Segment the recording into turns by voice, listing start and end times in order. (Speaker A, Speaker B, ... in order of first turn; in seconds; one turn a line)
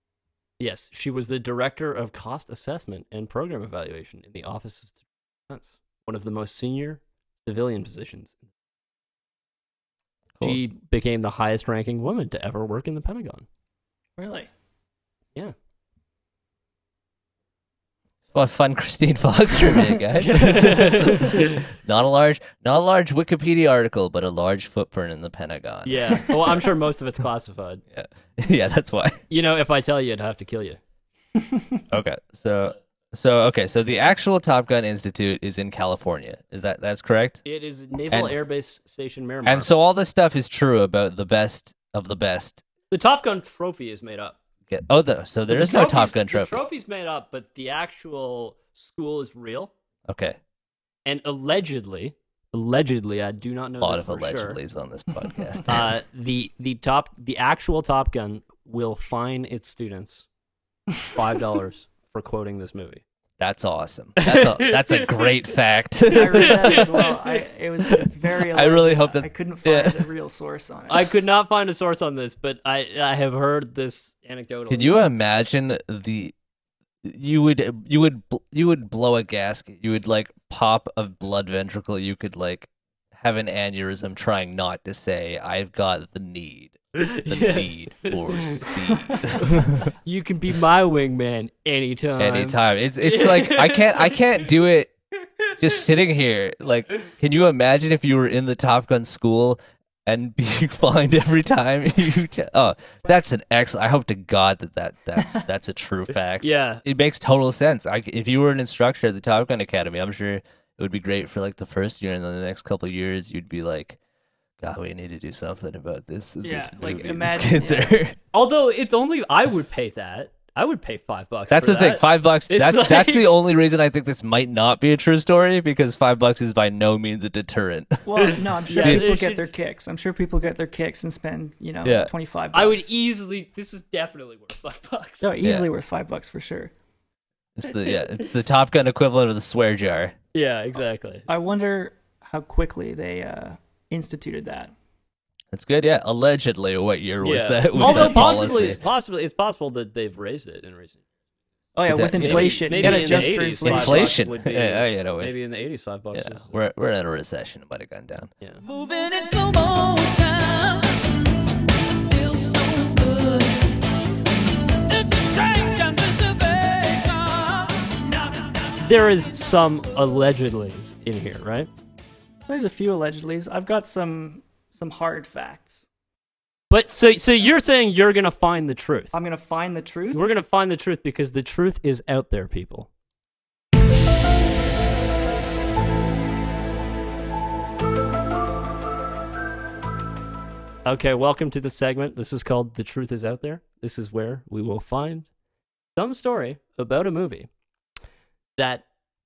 Speaker A: 0.6-8.4
Speaker A: 10.4-13.4
Speaker B: 14.2-14.5
Speaker C: 18.3-26.6
Speaker A: 20.2-21.6
Speaker A: 25.8-27.8
Speaker C: 27.9-29.2
Speaker A: 29.3-30.8
Speaker B: 31.5-31.8
Speaker C: 31.9-37.4
Speaker A: 37.4-39.7
Speaker C: 38.1-38.4
Speaker C: 39.5-42.6
Speaker A: 42.9-44.4
Speaker C: 44.7-46.6
Speaker A: 45.5-49.7
Speaker C: 50.1-50.4
Speaker A: 51.0-54.6
Speaker C: 53.8-55.9
Speaker A: 55.6-60.2
Speaker A: 61.1-63.0
Speaker C: 63.4-67.1
Speaker A: 64.2-65.3
Speaker B: 66.1-71.1
Speaker A: 66.3-67.3
Speaker C: 68.5-70.1
Speaker A: 70.9-75.0
Speaker C: 74.7-76.3
Speaker C: 77.0-89.9
Speaker A: 86.9-94.3
Speaker C: 92.2-94.9
Speaker C: 95.6-114.0
Speaker A: 106.4-106.8
Speaker C: 114.6-118.2
Speaker B: 116.4-118.0
Speaker A: 118.3-123.3
Speaker C: 121.5-128.0
Speaker B: 128.0-132.9
Speaker A: 128.2-129.5
Speaker C: 128.8-129.1
Speaker C: 131.8-132.1
Speaker A: 132.5-135.3
Speaker B: 135.2-136.7
Speaker C: 137.6-140.2
Speaker A: 140.3-141.2
Speaker B: 141.3-144.7
Speaker C: 145.5-148.8
Speaker A: 147.2-151.0
Speaker B: 147.7-148.5
Speaker B: 151.8-154.2
Speaker C: 151.9-155.4
Speaker A: 152.2-156.5
Speaker C: 156.1-158.3
Speaker D: 158.6-161.2
Speaker D: 161.9-163.9
Speaker D: 164.7-168.7
Speaker A: 168.8-171.7
Speaker B: 172.5-175.8
Speaker A: 176.7-179.1
Speaker B: 179.1-180.2
Speaker A: 180.1-182.9
Speaker A: 190.8-195.3
Speaker A: 195.9-197.5
Speaker A: 198.6-198.8